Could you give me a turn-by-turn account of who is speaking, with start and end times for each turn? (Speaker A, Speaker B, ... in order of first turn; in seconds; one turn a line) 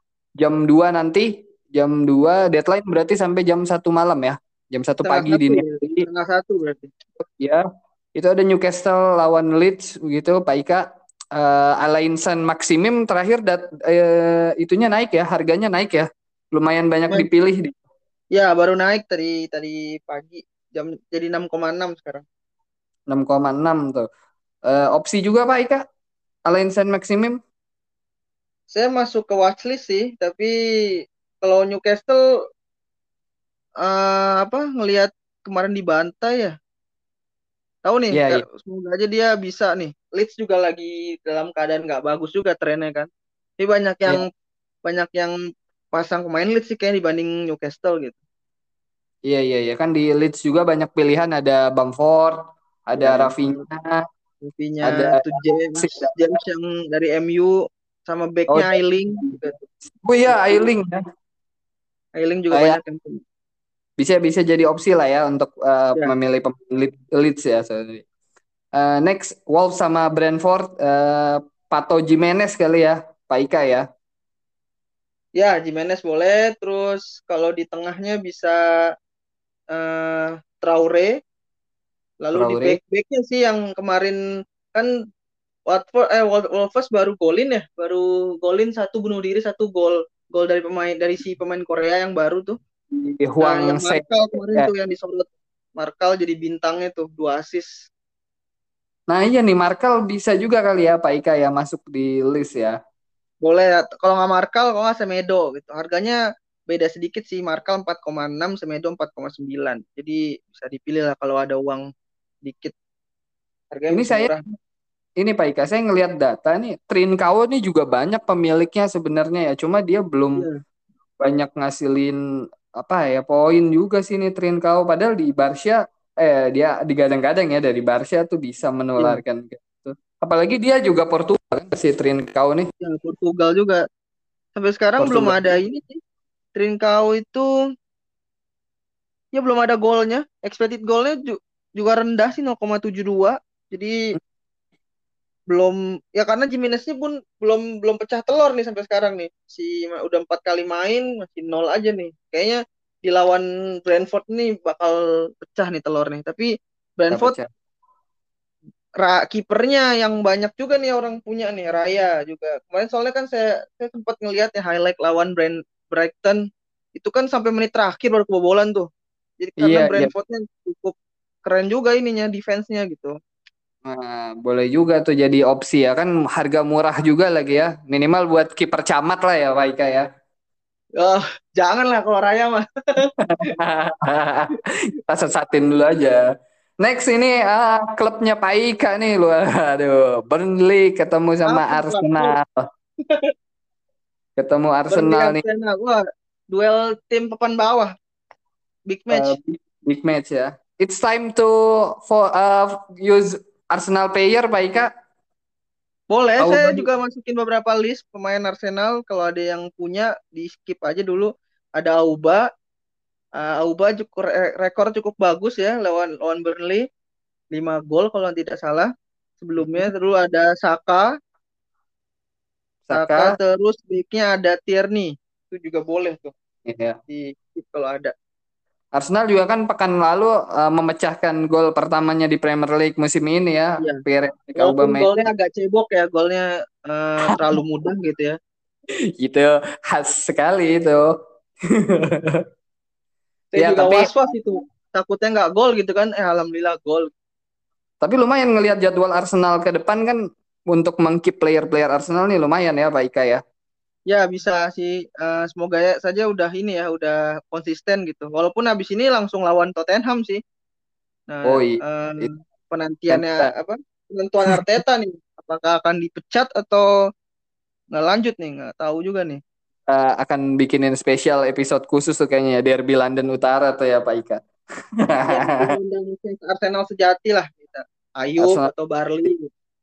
Speaker A: 0.4-6.1
Speaker B: 5.0-6.9
Speaker A: 7.2-7.6
Speaker A: 8.2-17.8
Speaker B: 18.3-22.2
Speaker A: 23.1-24.1
Speaker A: 24.7-25.9
Speaker A: 26.5-27.4
Speaker B: 28.7-30.5
Speaker B: 31.4-32.2
Speaker B: 33.8-36.5
Speaker B: 37.9-43.1
Speaker A: 38.1-38.5
Speaker B: 43.6-44.3
Speaker B: 44.9-45.3
Speaker B: 45.9-48.2
Speaker A: 49.3-54.0
Speaker B: 53.0-53.6
Speaker B: 54.4-59.6
Speaker A: 54.8-56.4
Speaker A: 58.5-61.0
Speaker B: 60.3-60.6
Speaker B: 62.2-63.2
Speaker A: 62.5-62.8
Speaker A: 64.0-68.0
Speaker A: 68.7-73.9
Speaker B: 75.4-78.6
Speaker B: 79.7-81.2
Speaker B: 82.2-84.2
Speaker A: 82.3-82.8
Speaker B: 85.7-92.6
Speaker A: 92.9-94.7
Speaker B: 93.4-97.7
Speaker A: 99.1-102.8
Speaker B: 103.4-111.8
Speaker B: 112.4-112.8
Speaker B: 113.7-114.4
Speaker A: 113.9-114.3
Speaker A: 115.2-120.5
Speaker A: 121.2-122.2
Speaker A: 122.7-132.7
Speaker B: 132.8-133.8
Speaker B: 134.6-136.0
Speaker A: 135.0-135.4
Speaker B: 136.6-137.5
Speaker B: 139.3-144.0
Speaker B: 145.5-157.3
Speaker A: 157.1-157.5
Speaker B: 159.0-166.4
Speaker B: 167.0-168.9
Speaker B: 169.4-173.1
Speaker A: 169.6-170.1
Speaker A: 173.8-180.1
Speaker B: 181.0-183.1
Speaker A: 183.2-184.5
Speaker A: 185.1-186.2
Speaker A: 186.8-192.6
Speaker B: 191.5-192.3
Speaker A: 194.4-195.4
Speaker B: 194.9-196.0
Speaker B: 196.5-197.9
Speaker B: 198.9-199.4
Speaker A: 199.1-204.9
Speaker B: 206.1-212.4
Speaker A: 206.4-206.9
Speaker B: 213.4-216.8
Speaker B: 217.5-221.1
Speaker A: 219.6-219.9
Speaker A: 222.8-223.4
Speaker B: 222.9-226.3
Speaker A: 226.7-227.0
Speaker B: 227.1-228.1
Speaker A: 228.9-235.3
Speaker B: 234.6-238.4
Speaker A: 237.3-237.6
Speaker A: 239.2-241.0
Speaker A: 241.7-242.4
Speaker B: 243.5-247.1
Speaker A: 243.6-244.1
Speaker A: 248.0-253.4
Speaker B: 254.1-260.4
Speaker B: 261.3-266.9
Speaker A: 261.4-262.3
Speaker A: 263.1-263.5
Speaker B: 267.9-269.4
Speaker A: 269.9-274.4
Speaker A: 275.1-275.7
Speaker B: 275.3-279.5
Speaker A: 278.4-278.7